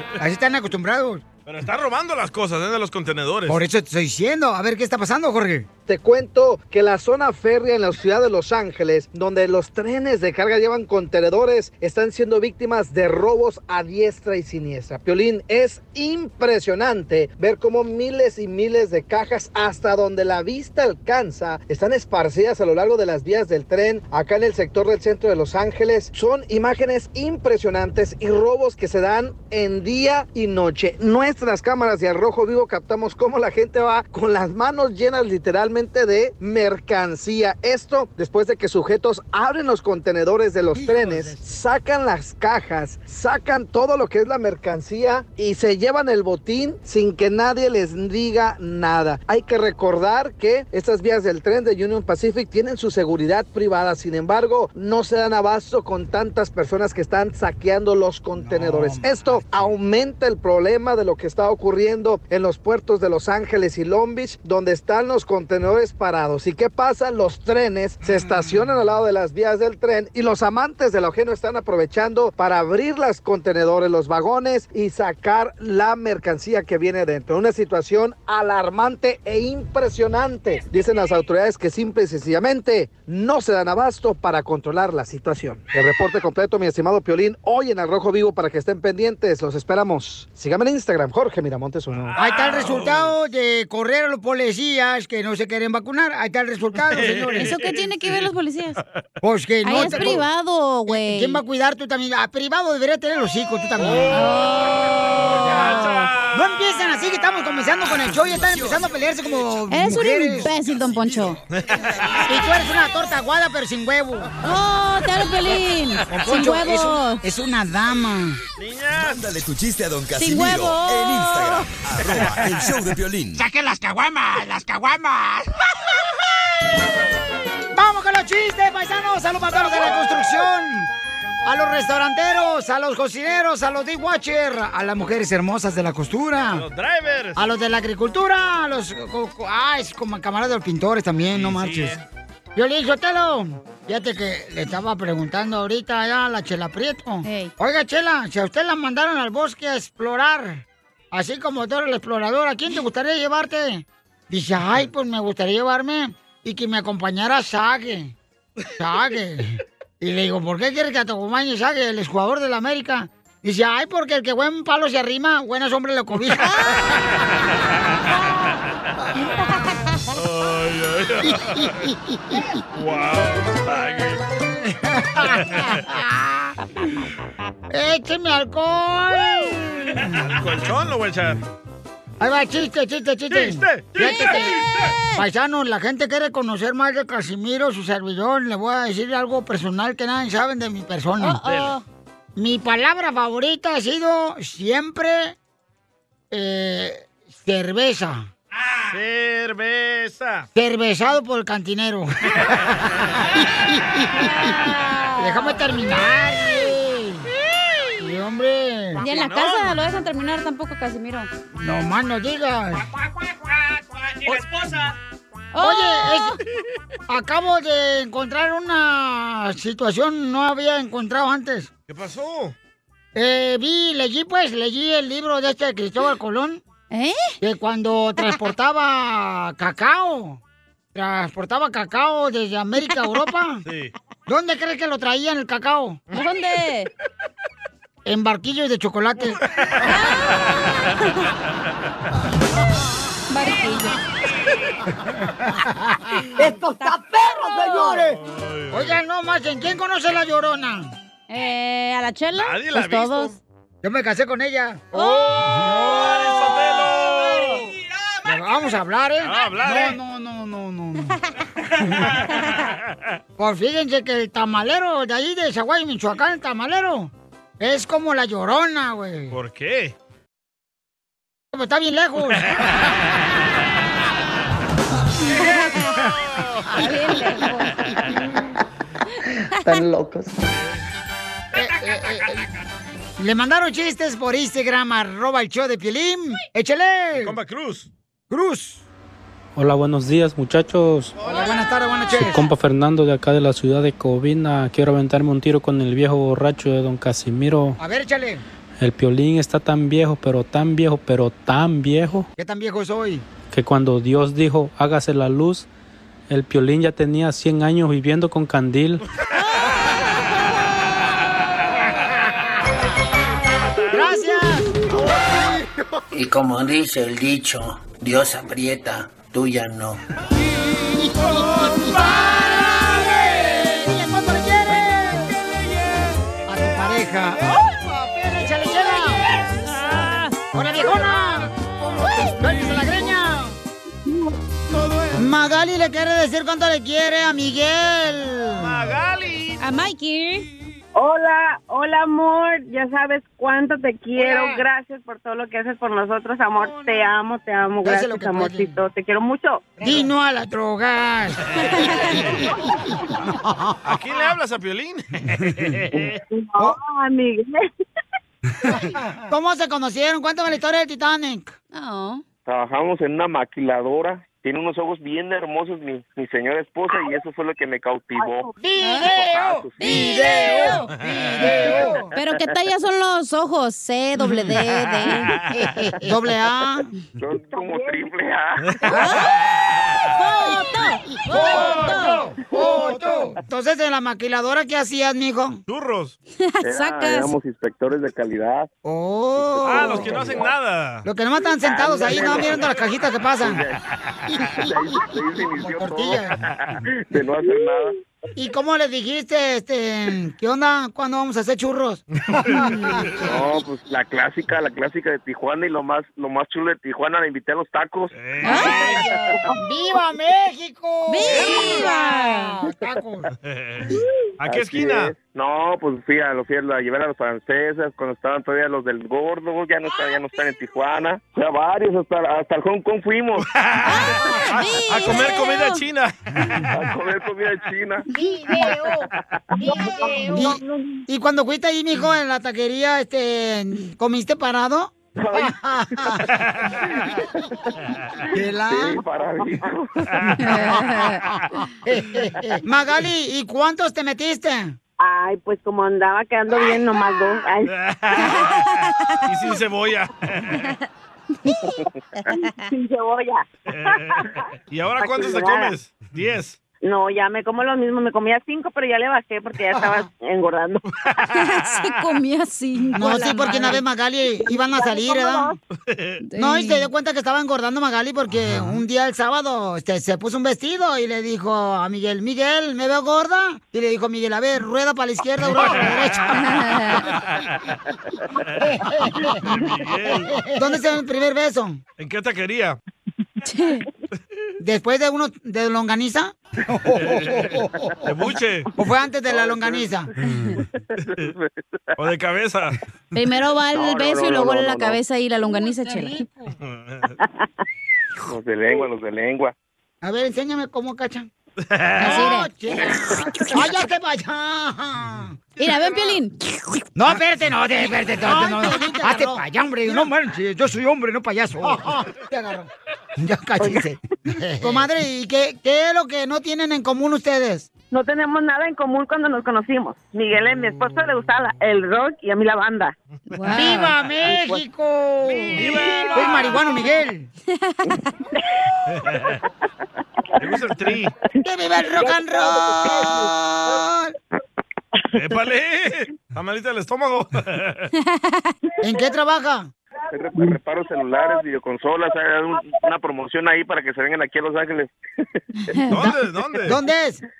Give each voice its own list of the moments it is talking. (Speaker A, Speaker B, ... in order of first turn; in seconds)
Speaker A: 0.2-1.2, 3.5-5.7, 40.7-41.5, 58.4-59.7, 68.1-68.4, 92.2-97.5, 99.2-100.2, 100.9-104.3, 105.3-110.5, 112.3-114.4, 116.1-118.4, 127.7-130.9, 131.4-136.6, 137.3-142.0, 142.6-158.1, 158.8-166.5, 171.6-172.4, 174.7-176.5, 177.7-180.4, 182.2-184.6, 185.2-191.4, 192.3-195.3, 196.3-198.3, 200.5-204.6, 205.2-207.3, 208.0-209.0, 211.6-212.9, 215.6-216.4, 217.1-221.7, 223.1-226.6, 227.4-230.4, 230.9-233.6, 234.3-236.0, 238.1-239.4, 245.4-246.2, 248.7-250.9, 253.8-256.6, 258.2-261.2, 261.8-262.1, 263.4-269.4, 271.5-272.5, 281.5-282.4, 283.2-287.3, 288.3-288.8, 291.2-292.5, 297.8-298.4, 302.4-303.2, 313.9-314.8, 321.0-325.4, 326.5-329.3, 330.5-331.5, 332.4-333.6, 335.1-338.8, 344.1-344.6, 346.6-347.1, 347.8-348.8, 349.8-353.8, 358.7-361.5, 368.6-372.1, 375.5-376.9, 381.3-385.6, 388.8-390.4, 391.0-393.6, 394.3-394.7, 395.6-396.4, 398.4-403.3, 408.7-413.3, 428.1-429.1, 429.6-436.3, 438.3-439.0, 440.4-444.8, 462.9-465.5, 466.4-476.6, 478.6-481.8, 484.6-487.9, 488.8-490.1, 495.5-496.5, 500.0-501.3, 502.0-505.4, 506.9-517.7, 523.5-527.3, 531.4-534.1, 538.8-539.7, 546.6-547.2
Speaker B: 1.4-3.6, 91.9-93.2, 96.9-98.3, 99.8-100.2, 103.8-104.3, 105.2-106.3, 111.5-112.3, 118.6-119.2, 129.7-130.2, 136.5-137.4, 141.3-142.0, 170.1-171.9, 172.7-174.2, 180.2-181.4, 183.3-184.9, 191.4-191.7, 198.9-200.5, 209.0-209.8, 221.9-222.5, 233.7-233.9, 248.2-249.0, 252.3-253.3, 255.0-257.6, 259.2-260.0, 262.6-263.0, 269.3-269.9, 275.8-278.0, 287.2-287.9, 291.2-291.6, 331.8-332.9, 338.6-339.6, 353.8-356.2, 371.0-371.5, 374.6-375.6, 385.7-386.1, 389.6-391.1, 402.3-402.7, 408.1-409.0, 411.3-411.9, 413.4-415.1, 423.4-426.6, 436.5-436.7, 447.7-448.6, 449.2-450.6, 453.7-456.6, 461.1-461.6, 465.9-466.2, 475.6-476.1, 477.1-477.7, 479.5-480.4, 482.0-482.8, 487.0-488.7, 491.1-491.3, 491.9-492.8, 496.7-497.1, 501.6-502.3, 525.5-526.5, 529.0-529.4, 530.4-531.1, 535.1-537.9, 545.9-546.8
Speaker C: 5.9-92.2
Speaker D: 97.4-98.8, 99.6-101.4, 104.1-106.1, 109.7-111.4, 114.4-117.2, 120.2-121.7, 147.2-147.5, 166.5-166.8, 184.0-184.5, 191.2-191.8, 204.2-205.6, 209.0-211.3, 215.5-216.3, 226.9-227.3, 236.1-236.9, 239.8-240.3, 243.3-244.0, 246.7-248.1, 251.3-253.3, 254.9-255.4, 275.4-275.9, 276.7-277.8, 309.4-309.7, 329.7-330.3, 339.6-340.4, 361.7-362.2, 368.8-369.1, 369.8-370.8, 371.5-375.4, 378.9-379.3, 380.1-382.2, 386.5-387.3, 408.4-409.0, 411.1-412.6, 423.8-425.8, 440.4-441.2, 448.2-448.5, 461.3-463.8, 466.2-466.9, 476.4-477.0, 483.5-483.8, 493.1-496.2, 502.0-502.5, 505.6-506.8, 508.4-509.2, 523.3-523.9, 527.7-528.0, 538.0-538.5, 545.7-546.0
Speaker E: 108.1-108.8, 110.7-111.4, 119.0-123.4
Speaker F: 279.6-280.5, 316.1-320.0
Speaker G: 289.6-291.2, 292.2-297.8, 298.8-302.3, 303.5-305.7, 306.3-309.0
Speaker H: 340.9-349.8, 356.3-357.7, 368.2-368.5, 377.5-378.1, 397.5-397.8, 429.6-431.0, 445.0-447.7, 452.6-454.3, 455.0-455.7, 456.8-460.8, 464.5-465.6, 517.9-522.9, 532.0-533.2, 540.4-541.4, 542.5-542.9
Speaker I: 362.4-370.2, 377.2-378.7, 382.5-382.9, 386.6-388.7, 389.4-390.5, 391.6-392.8, 393.4-393.8, 394.6-396.4, 396.9-397.9, 403.2-408.1, 408.8-409.4, 414.4-423.5, 426.7-428.1, 435.1-435.5, 436.9-437.4, 438.6-440.1, 489.3-490.0, 491.0-491.8, 493.7-495.0, 498.3-499.5, 540.1-545.0